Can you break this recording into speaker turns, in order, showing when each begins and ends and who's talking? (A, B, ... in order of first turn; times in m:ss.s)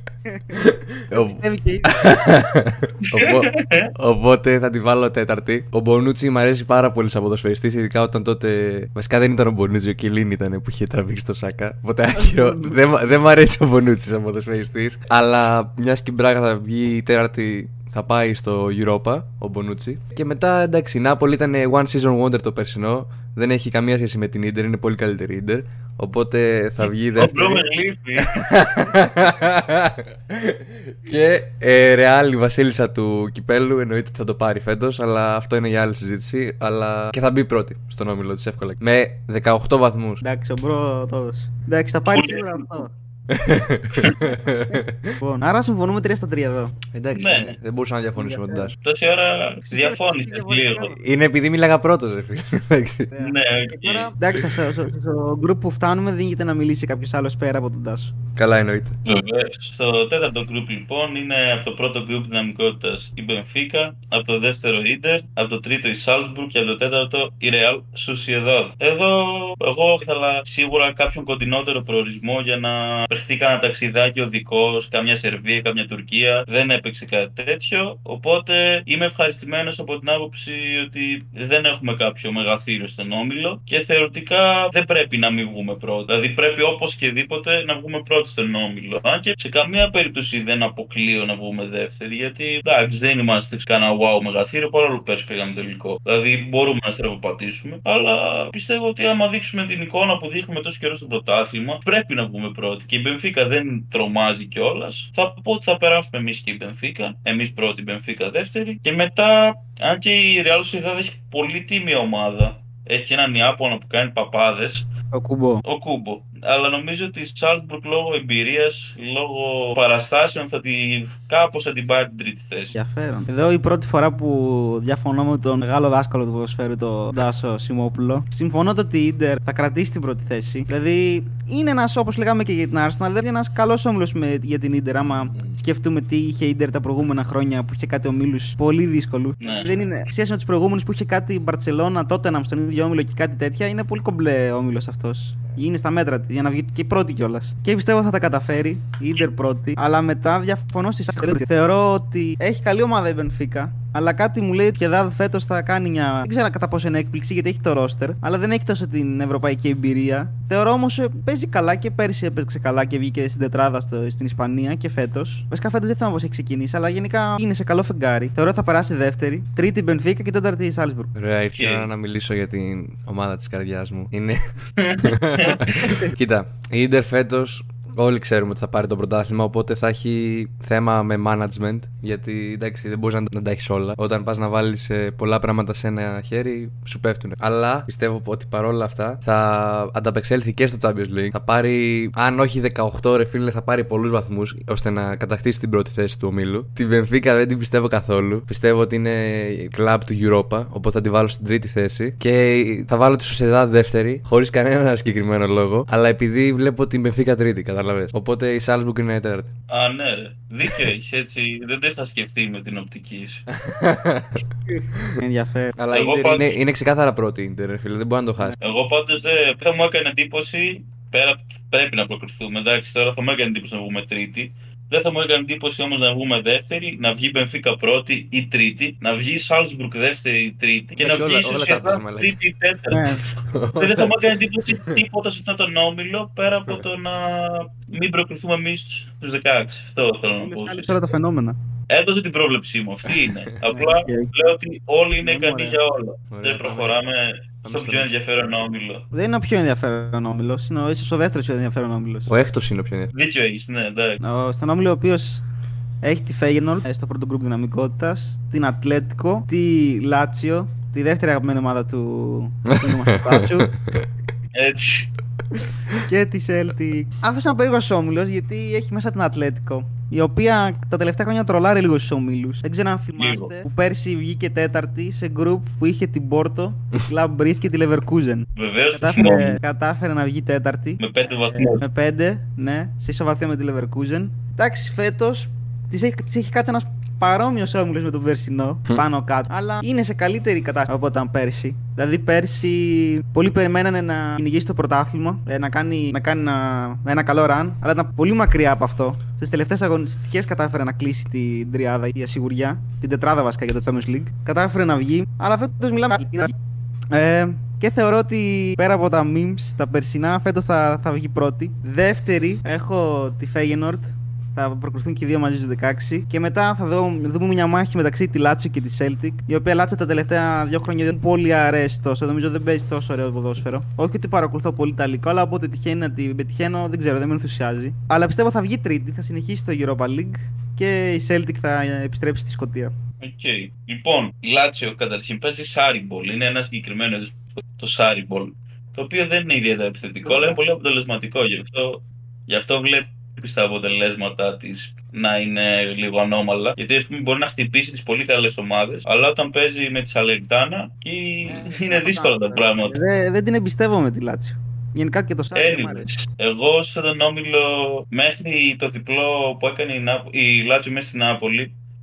0:00.3-0:02.1 A
0:00.5-0:27.7 B
0:03.0-0:03.9 C
0:12.2-0:12.8 A
0:26.8-0:28.4 C
0:28.2-0:40.2 B
0:40.2-0:42.9 A
0:42.1-0:42.8 C
0:43.3-0:45.2 B
0:43.9-0:44.4 C
0:45.2-0:46.8 A
0:46.9-0:48.7 B
0:47.2-0:47.6 C
0:48.2-0:48.7 A
0:48.8-0:50.9 C
0:49.7-0:51.0 A
0:51.0-0:53.1 B
0:53.1-0:58.2 A
0:53.2-0:54.1 C
0:54.3-0:54.6 B
0:58.4-0:59.0 B
0:59.0-1:54.9 C
1:55.1-1:55.6 A
1:55.6-2:02.7 C
2:02.7-2:51.1 A
2:19.4-2:19.7 C
2:51.2-3:29.5 B
2:51.5-2:51.9 C
2:54.8-2:56.0 C
3:29.7-3:33.4 C
3:33.5-3:34.4 B
3:34.7-3:35.8 A
3:35.8-3:38.6 B
3:35.9-3:36.6 C
3:38.6-3:53.2 C
3:51.0-3:52.4 B
3:52.9-3:53.2 A
3:53.4-3:55.0 B
3:53.8-4:01.0 C
4:00.4-4:01.6 A
4:01.9-4:09.0 C
4:03.1-4:03.5 B
4:03.6-4:04.3 A
4:05.2-4:05.8 A
4:06.3-4:07.0 B
4:07.6-4:08.6 B
4:09.1-4:12.3 A
4:12.3-4:13.1 B
4:13.1-4:14.2 C
4:14.2-4:15.4 A
4:16.0-4:23.7 A
4:22.7-4:24.1 B
4:24.5-4:25.1 C
4:25.9-5:06.5 A
4:33.2-4:33.5 C
4:38.6-4:39.6 C
4:41.0-4:41.8 C
5:07.1-5:32.9 A
5:33.2-5:53.0 C
5:40.2-5:40.6 A
5:51.4-5:56.1 A
5:55.6-6:01.7 C